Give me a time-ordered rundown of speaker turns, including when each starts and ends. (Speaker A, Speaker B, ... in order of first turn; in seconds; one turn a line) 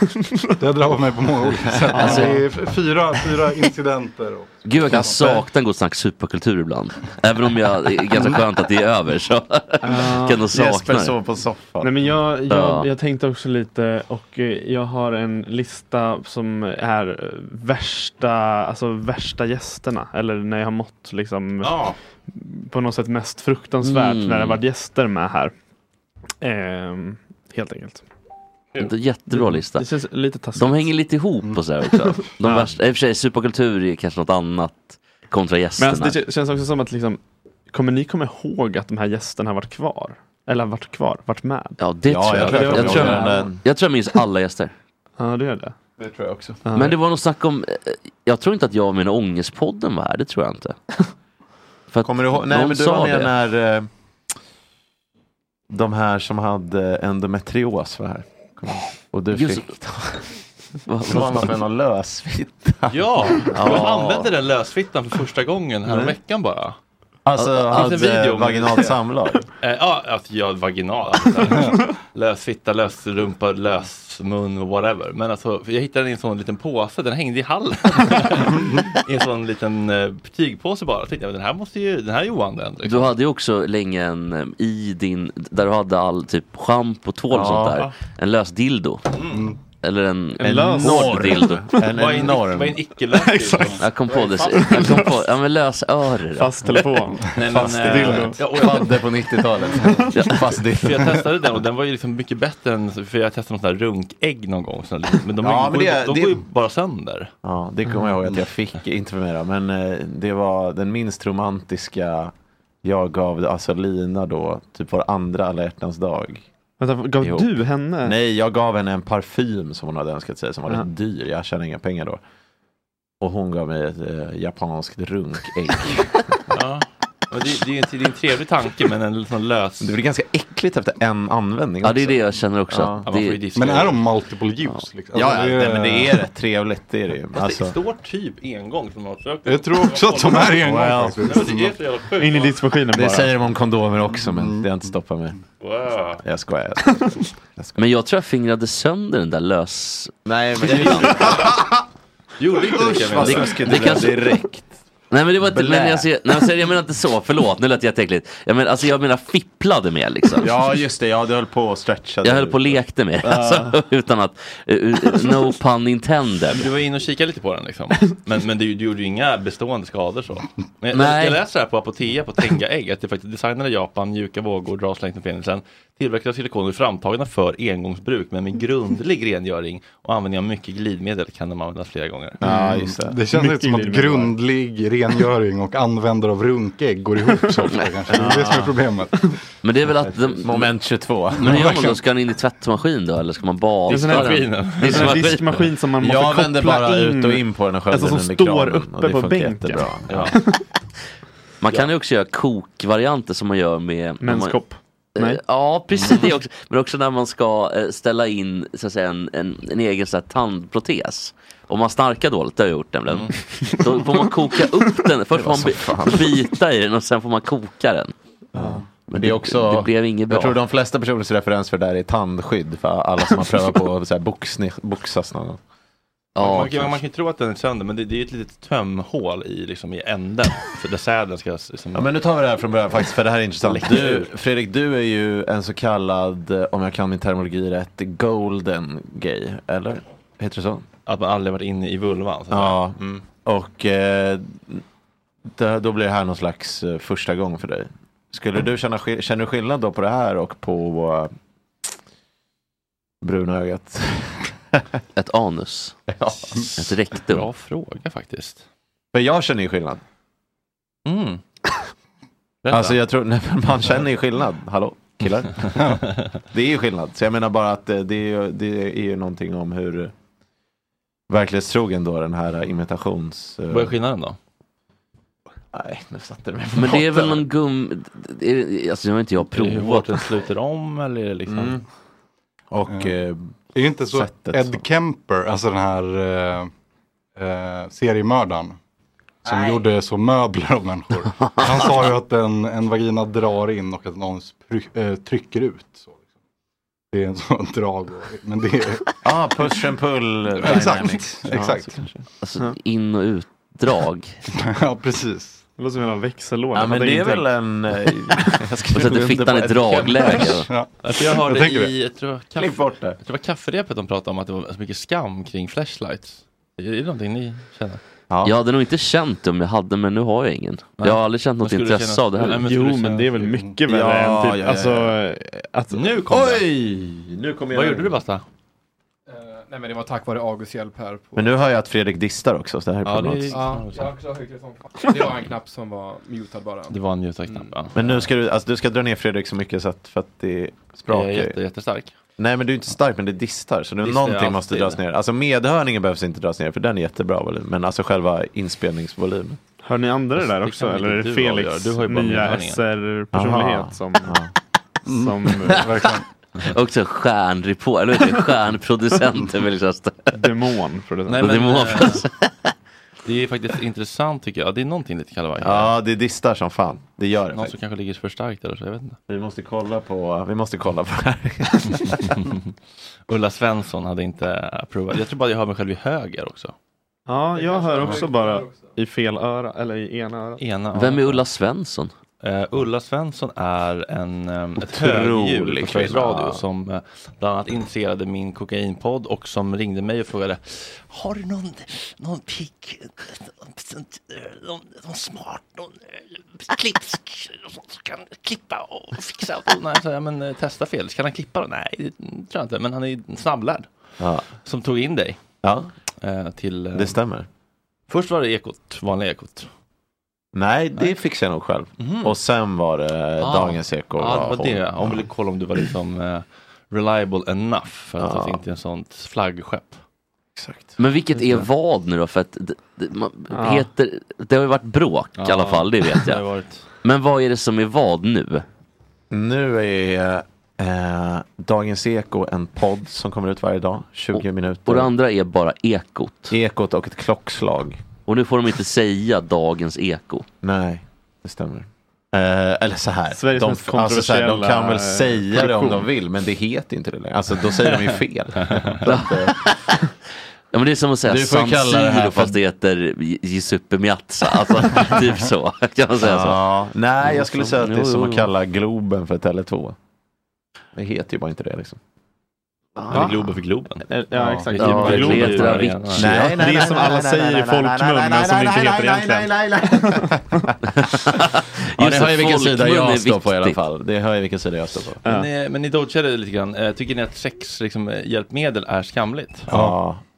Speaker A: 0.6-5.4
Speaker B: 1.7-2.4
Speaker C: 2.0-2.4
Speaker C: 4.7-11.2
Speaker B: 4.9-5.4
Speaker D: 9.8-10.5
Speaker B: 10.5-11.9
Speaker D: 11.8-25.5
Speaker C: 12.5-12.9
Speaker E: 21.6-21.9
Speaker C: 23.8-24.6
Speaker D: 26.4-28.1
Speaker C: 28.8-29.9
Speaker D: 28.8-30.9
Speaker C: 30.6-36.2
Speaker D: 32.4-32.7
Speaker D: 35.8-43.3
Speaker C: 41.8-44.7
Speaker B: 42.1-43.6
Speaker D: 45.2-45.7
Speaker B: 46.0-46.6
Speaker D: 46.7-47.0
Speaker C: 46.7-50.8
Speaker C: 51.9-53.3
Speaker B: 52.0-53.9
Speaker B: 55.7-60.1
Speaker C: 59.4-60.3
Speaker C: 60.9-61.4
Speaker B: 61.0-64.0
Speaker E: 62.9-66.8
Speaker C: 63.6-64.3
Speaker B: 65.9-66.2
Speaker B: 67.3-69.5
Speaker C: 67.6-67.9
Speaker E: 67.7-69.0
Speaker E: 69.6-83.1
Speaker C: 82.8-89.0
Speaker B: 87.3-87.9
Speaker E: 89.1-89.4
Speaker A: 89.3-89.6
Speaker C: 89.8-91.7
Speaker D: 90.4-91.9
Speaker B: 90.4-92.8
Speaker E: 91.8-93.8
Speaker D: 93.1-95.3
Speaker C: 93.8-97.0
Speaker D: 96.4-97.3
Speaker E: 97.3-99.0
Speaker B: 97.5-101.2
Speaker D: 97.8-98.4
Speaker E: 100.8-107.3
Speaker B: 105.4-106.4
Speaker B: 107.4-116.5
Speaker D: 116.8-118.2
Speaker B: 117.2-117.5
Speaker B: 118.0-122.2
Speaker B: 123.2-126.3
Speaker E: 126.5-130.0
Speaker B: 129.8-133.1
Speaker C: 131.8-133.5
Speaker E: 133.0-134.0
Speaker A: 133.5-136.2
Speaker B: 135.1-137.8
Speaker E: 137.3-140.6
Speaker A: 139.5-141.7
Speaker B: 140.6-141.4
Speaker E: 141.2-142.6
Speaker D: 142.2-143.3
Speaker B: 142.9-145.4
Speaker E: 145.6-146.2
Speaker B: 146.2-147.9
Speaker C: 147.8-150.2
Speaker B: 150.3-151.6
Speaker C: 150.7-151.1
Speaker E: 152.4-153.6
Speaker B: 152.6-154.7
Speaker C: 153.2-154.2
Speaker C: 155.1-160.5
Speaker B: 155.4-156.1
Speaker B: 160.4-163.7
Speaker C: 162.2-166.7
Speaker E: 166.5-182.4
Speaker C: 170.9-171.4
Speaker B: 182.4-183.2
Speaker A: 182.5-189.1
Speaker D: 183.3-184.3
Speaker B: 188.1-188.7
Speaker C: 189.6-190.6
Speaker B: 190.4-191.6
Speaker A: 191.4-192.0
Speaker C: 191.4-195.7
Speaker D: 193.9-200.6
Speaker E: 193.9-195.2
Speaker B: 196.0-200.3
Speaker E: 200.1-200.3
Speaker C: 201.6-204.6
Speaker D: 204.2-205.4
Speaker C: 205.2-218.1
Speaker E: 206.0-206.3
Speaker B: 215.3-216.3
Speaker B: 218.5-225.6
Speaker C: 219.1-220.6
Speaker C: 226.4-227.0
Speaker E: 226.4-232.1
Speaker B: 231.9-240.9
Speaker E: 233.6-234.3
Speaker E: 241.1-243.2
Speaker B: 242.5-244.8
Speaker B: 245.5-251.3
Speaker B: 253.2-254.9
Speaker C: 255.2-256.0
Speaker B: 256.1-256.7
Speaker C: 256.8-257.5
Speaker E: 257.1-258.6
Speaker B: 259.1-260.0
Speaker E: 261.1-261.4
Speaker E: 262.6-263.0
Speaker B: 262.7-266.0
Speaker E: 265.6-266.3
Speaker B: 266.5-270.1
Speaker B: 271.3-273.9
Speaker E: 273.7-274.4
Speaker B: 275.7-277.4
Speaker C: 276.8-280.3
Speaker E: 279.5-281.8
Speaker B: 281.5-281.8
Speaker B: 282.7-283.5
Speaker A: 283.8-286.7
Speaker B: 284.1-284.9
Speaker A: 287.4-288.8
Speaker A: 289.4-296.2
Speaker B: 289.5-289.8
Speaker A: 297.1-299.1
Speaker B: 299.2-302.2
Speaker A: 300.6-302.0
Speaker C: 302.4-304.4
Speaker A: 304.5-305.6
Speaker D: 305.8-307.5
Speaker B: 306.7-310.4
Speaker C: 308.9-310.7
Speaker A: 310.6-311.9
Speaker E: 311.0-318.0
Speaker B: 312.6-313.2
Speaker B: 318.3-318.6
Speaker C: 318.4-322.6
Speaker E: 321.0-323.5
Speaker D: 322.5-326.1
Speaker B: 323.9-325.1
Speaker E: 325.9-326.6
Speaker B: 326.3-328.2
Speaker E: 327.7-328.4
Speaker F: 329.3-331.6
Speaker B: 331.4-333.6
Speaker E: 333.1-334.1
Speaker F: 333.5-337.0
Speaker E: 336.9-338.3
Speaker B: 337.9-341.6
Speaker E: 341.1-342.1
Speaker B: 342.4-349.6
Speaker E: 344.0-345.0
Speaker D: 349.8-354.4
Speaker E: 350.4-352.8
Speaker B: 353.3-354.5
Speaker A: 355.1-356.2
Speaker D: 355.1-355.9
Speaker C: 356.6-360.4
Speaker D: 360.3-361.5
Speaker E: 361.3-362.2
Speaker C: 361.3-362.7
Speaker E: 363.3-365.9
Speaker B: 365.6-367.7
Speaker E: 367.5-369.2
Speaker B: 369.3-372.3
Speaker E: 373.3-376.7
Speaker D: 377.3-380.6
Speaker F: 377.6-378.9
Speaker E: 380.6-381.4
Speaker C: 380.9-382.1
Speaker E: 382.4-403.9
Speaker B: 384.8-386.6
Speaker B: 404.2-404.5
Speaker E: 404.6-405.4
Speaker B: 405.6-405.9
Speaker E: 406.2-407.2
Speaker B: 406.9-407.5
Speaker E: 408.1-409.7
Speaker B: 410.5-415.2
Speaker E: 412.0-412.4
Speaker E: 413.4-420.0
Speaker B: 418.2-418.6
Speaker B: 420.6-421.0
Speaker C: 421.0-426.4
Speaker D: 423.5-423.9
Speaker E: 425.4-426.8
Speaker C: 427.0-428.6
Speaker B: 429.3-435.1
Speaker C: 434.9-436.5
Speaker B: 436.5-438.0
Speaker C: 438.3-440.5
Speaker B: 440.6-449.6
Speaker D: 443.4-446.1
Speaker E: 448.7-449.0
Speaker C: 449.1-450.1
Speaker C: 450.7-456.6
Speaker B: 451.3-452.6
Speaker B: 456.2-459.9
Speaker C: 457.2-458.5
Speaker B: 460.9-462.0
Speaker E: 463.1-464.0
Speaker D: 464.1-470.3
Speaker A: 464.3-464.7
Speaker C: 464.8-466.1
Speaker B: 464.8-465.6
Speaker E: 464.9-466.3
Speaker B: 466.1-470.7
Speaker C: 471.2-473.8
Speaker B: 472.0-475.2
Speaker D: 475.2-475.5
Speaker E: 475.3-479.7
Speaker B: 479.7-480.2
Speaker A: 479.7-480.0